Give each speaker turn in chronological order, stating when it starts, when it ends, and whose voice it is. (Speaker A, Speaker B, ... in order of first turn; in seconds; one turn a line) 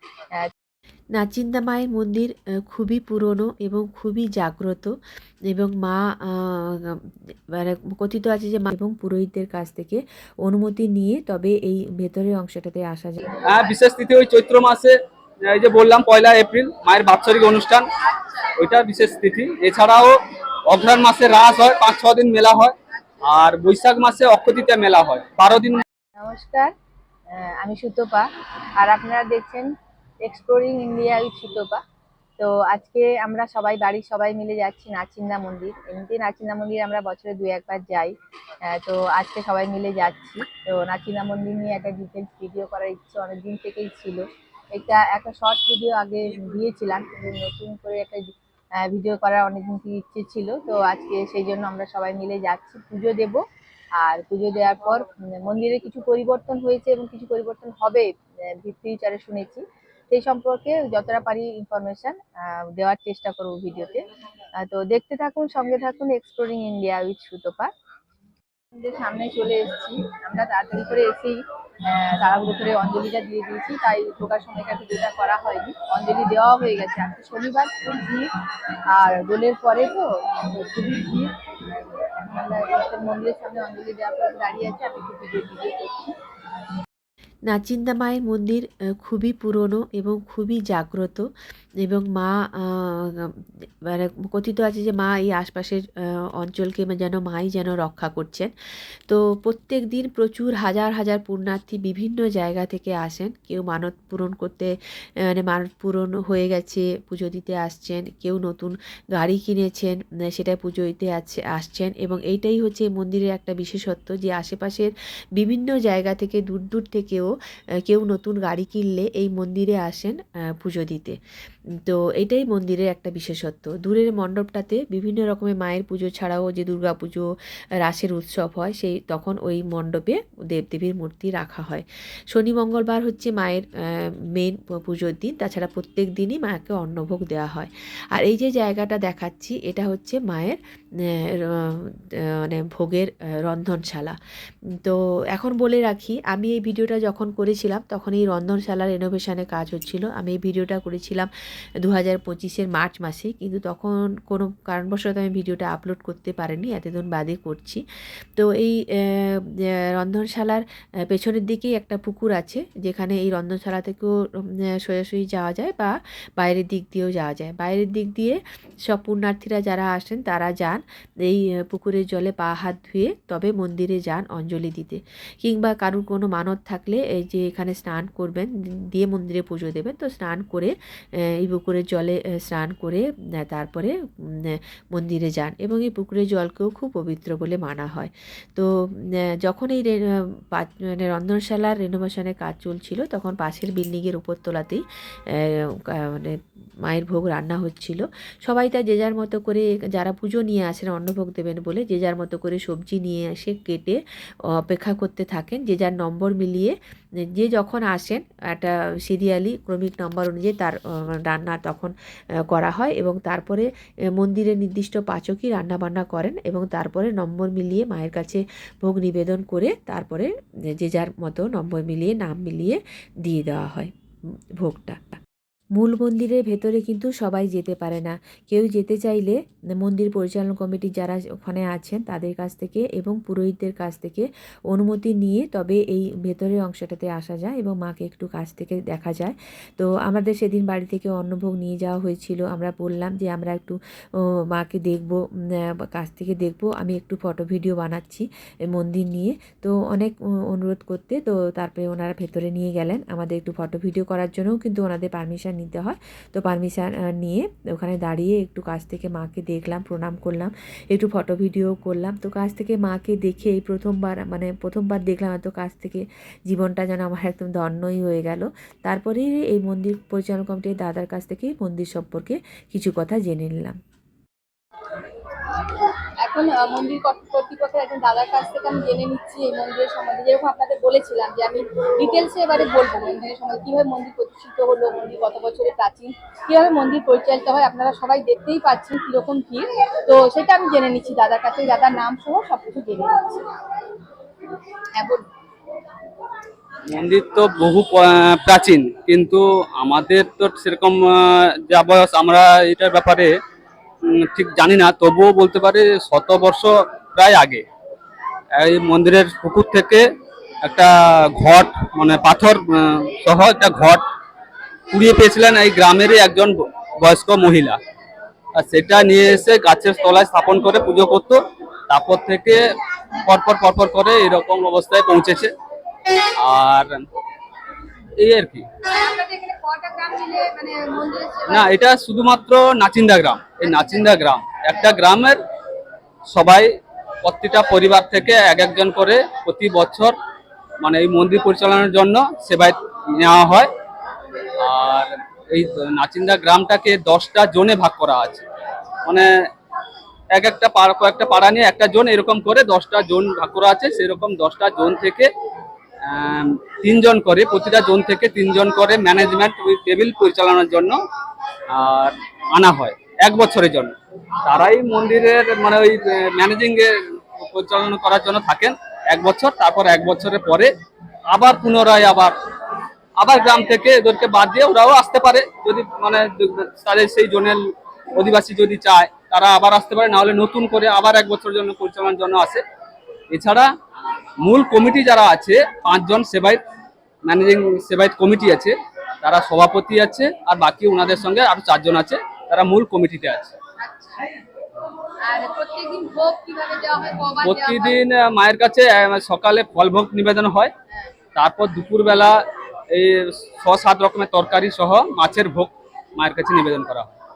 Speaker A: 1.2-5.0
Speaker A: 5.5-7.0
Speaker A: 7.5-13.2
Speaker B: 13.4-13.7
Speaker C: 13.4-17.9
Speaker B: 18.0-18.6
Speaker C: 18.6-25.8
Speaker B: 23.0-23.3
Speaker B: 26.2-26.7
Speaker B: 27.3-29.7
Speaker B: 30.2-31.8
Speaker B: 32.4-38.1
Speaker B: 38.6-53.4
Speaker B: 54.0-64.0
Speaker B: 64.6-67.7
Speaker B: 68.7-78.3
Speaker B: 78.9-81.3
Speaker B: 82.2-86.1
Speaker A: 87.5-91.3
Speaker A: 91.8-98.5
Speaker A: 99.1-104.7
Speaker A: 105.3-117.3
Speaker A: 117.9-121.2
Speaker A: 121.8-127.3
Speaker A: 127.8-140.6
Speaker A: 141.6-144.2
Speaker A: 144.8-151.3
Speaker A: 151.8-157.8
Speaker A: 158.4-180.7
Speaker A: 181.3-188.7
Speaker A: 189.4-196.3
Speaker A: 196.9-204.0
Speaker A: 204.5-206.7
Speaker A: 207.3-211.9
Speaker A: 212.5-223.9
Speaker A: 224.6-225.2
Speaker A: 225.7-243.8
Speaker A: 244.5-245.2
Speaker A: 245.9-273.8
Speaker B: 276.2-293.5
Speaker B: 295.0-295.2
Speaker C: 296.9-303.4
Speaker C: 304.1-307.6
Speaker C: 308.6-310.1
Speaker C: 310.6-314.0
Speaker C: 314.9-317.8
Speaker C: 318.6-322.6
Speaker C: 323.2-325.5
Speaker C: 326.4-327.0
Speaker C: 328.2-328.7
Speaker B: 328.8-331.7
Speaker C: 331.5-335.4
Speaker B: 333.6-335.0
Speaker C: 336.3-336.7
Speaker C: 337.2-340.1
Speaker C: 340.8-343.7
Speaker C: 344.6-348.5
Speaker C: 349.1-349.3
Speaker C: 350.3-355.3
Speaker C: 356.0-361.0
Speaker C: 361.7-370.7
Speaker C: 371.3-372.4
Speaker C: 373.2-377.6
Speaker C: 378.1-382.6
Speaker C: 383.3-383.7
Speaker C: 384.4-386.6
Speaker C: 387.2-393.6
Speaker B: 393.8-394.3
Speaker B: 395.2-398.0
Speaker C: 397.4-400.7
Speaker C: 401.4-402.4
Speaker C: 402.9-407.1